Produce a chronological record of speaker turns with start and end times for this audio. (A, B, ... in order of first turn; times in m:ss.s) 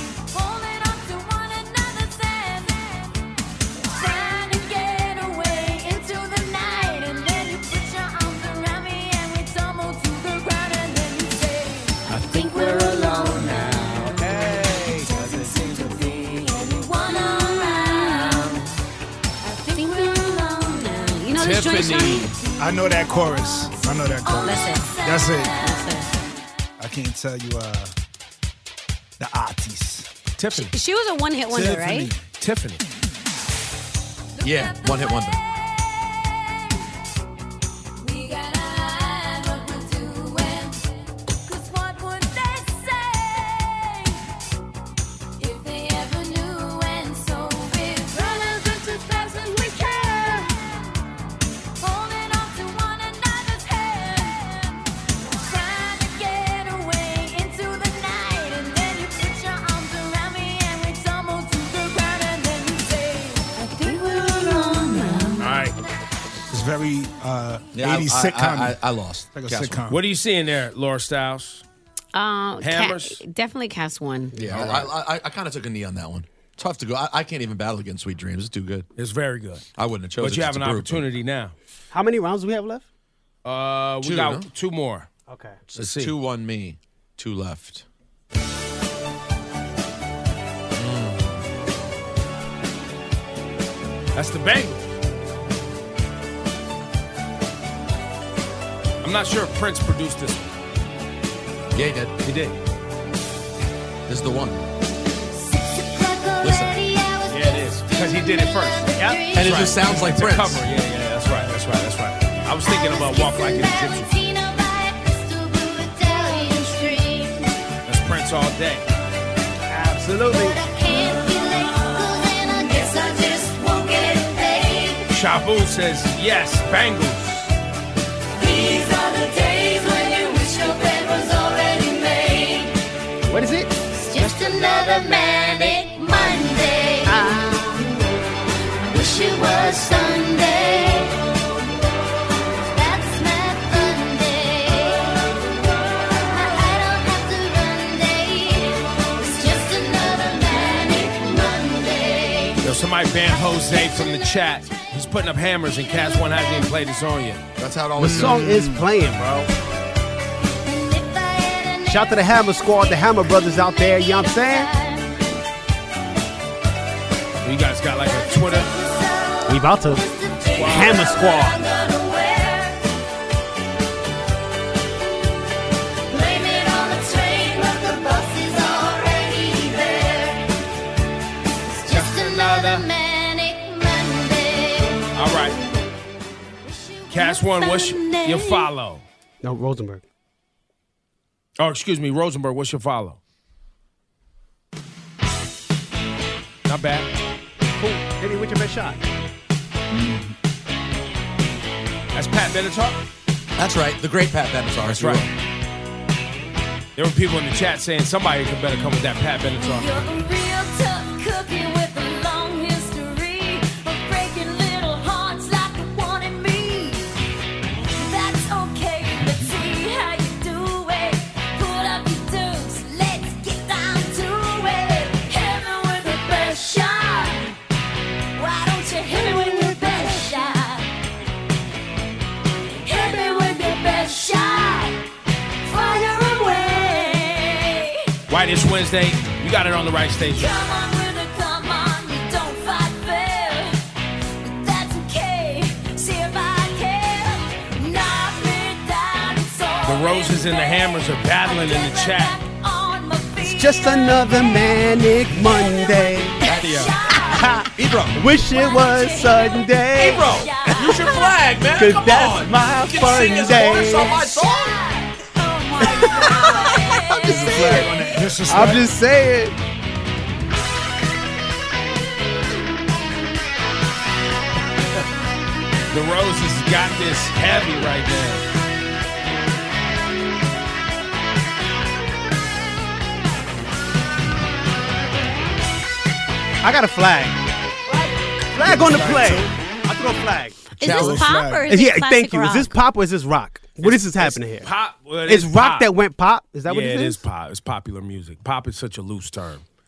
0:00.3-0:03.2 A
0:03.9-0:18.6 A
0:12.2-0:13.5 B
0:14.2-0:15.6 C
0:19.4-0:21.3 A
0:19.7-0:22.3 B
0:21.4-0:22.3 D
0:22.3-0:26.3 A
0:22.6-0:25.6 E
0:24.4-0:24.9 B
0:25.6-0:26.1 B
0:26.8-0:27.9 E
0:29.2-0:30.1 E
0:30.4-0:30.7 D
0:30.6-0:32.1 B
0:31.4-0:32.2 E
0:32.4-0:32.8 D
0:34.4-0:36.7 A
0:34.4-0:35.4 F
0:38.0-0:40.9 A
0:41.4-0:44.2 A
0:45.4-0:50.9 A
0:51.8-1:05.4 A
1:03.8-1:05.4 B
1:05.4-1:05.8 D
1:06.5-1:08.8 E
1:07.7-1:09.8 F
1:09.3-1:10.0 E
1:09.9-1:11.6 D
1:12.1-1:14.4 B
1:12.6-1:13.2 D
1:14.3-1:18.8 F
1:14.3-1:14.7 C
1:14.5-1:14.8 D
1:19.0-1:19.6 D
1:19.8-1:21.1 F
1:20.2-1:21.5 D
1:21.9-1:22.8 C
1:23.4-1:25.1 D
1:24.0-1:24.5 F
1:25.3-1:25.6 C
1:25.7-1:27.8 F
1:25.7-1:26.1 D
1:30.7-1:31.4 F
1:34.1-1:34.9 D
1:39.0-1:40.5 D
1:41.7-1:42.1 F
1:42.2-1:42.6 D
1:44.1-1:44.7 F
1:45.3-1:49.8 A
1:46.4-1:46.7 F
1:47.3-1:54.1 D
1:49.3-1:50.6 F
1:52.6-1:57.6 A
1:57.8-1:58.8 D
1:59.7-2:00.6 C
2:00.3-2:05.1 A
2:05.1-2:07.5 D
2:08.4-2:12.8 A
2:13.3-2:13.8 C
2:13.9-2:17.6 A
2:17.0-2:17.6 C
2:18.8-2:21.2 A
2:22.7-2:25.4 A
2:26.0-2:32.6 A
2:32.6-2:37.4 D
2:33.2-2:34.9 A
2:35.8-2:36.7 A
2:37.6-2:38.7 F
2:38.0-2:39.5 C
2:38.0-2:38.7 E
2:40.6-2:45.3 A
2:41.8-2:44.7 C
2:47.4-2:48.7 D
2:48.0-2:52.8 A
2:49.5-2:50.0 C
2:50.5-2:51.1 D
2:50.6-2:51.6 C
2:56.1-3:00.5 A
3:01.7-3:05.0 A
3:01.9-3:02.8 D
3:05.1-3:05.6 D
3:06.6-3:08.7 A
3:07.1-3:09.0 D
3:09.4-3:10.0 C
3:11.6-3:13.2 D
3:16.6-3:17.1 D
3:17.7-3:19.0 C
3:19.9-3:20.3 E
3:22.1-3:23.0 D
3:23.6-3:25.3 F
3:24.9-3:25.2 D
3:27.0-3:30.0 D
3:29.6-3:37.1 A
3:37.9-3:47.5 A
3:48.3-3:50.9 A
3:52.8-3:55.0 A
3:55.6-3:58.0 A
3:58.3-4:00.5 D
4:00.3-4:03.8 A
4:04.4-4:17.6 A
4:09.8-4:12.4 D
4:13.4-4:16.4 C
4:16.4-4:16.9 F
4:16.5-4:17.0 D
4:17.3-4:20.3 C
4:17.7-4:18.2 F
4:18.3-4:21.6 A
4:20.0-4:24.8 F
4:21.8-4:24.2 C
4:23.9-4:28.4 A
4:25.8-4:27.9 C
4:27.2-4:28.9 E
4:28.5-4:29.6 C
4:35.9-4:38.4 D
4:46.6-4:47.4 C
4:47.9-4:50.6 C
4:48.6-4:49.5 E
4:50.8-4:51.7 E
4:50.8-4:52.7 B
4:50.8-4:51.3 F
4:51.7-4:54.7 C
4:53.8-4:55.9 D
4:55.3-4:57.2 C
4:56.6-4:59.6 D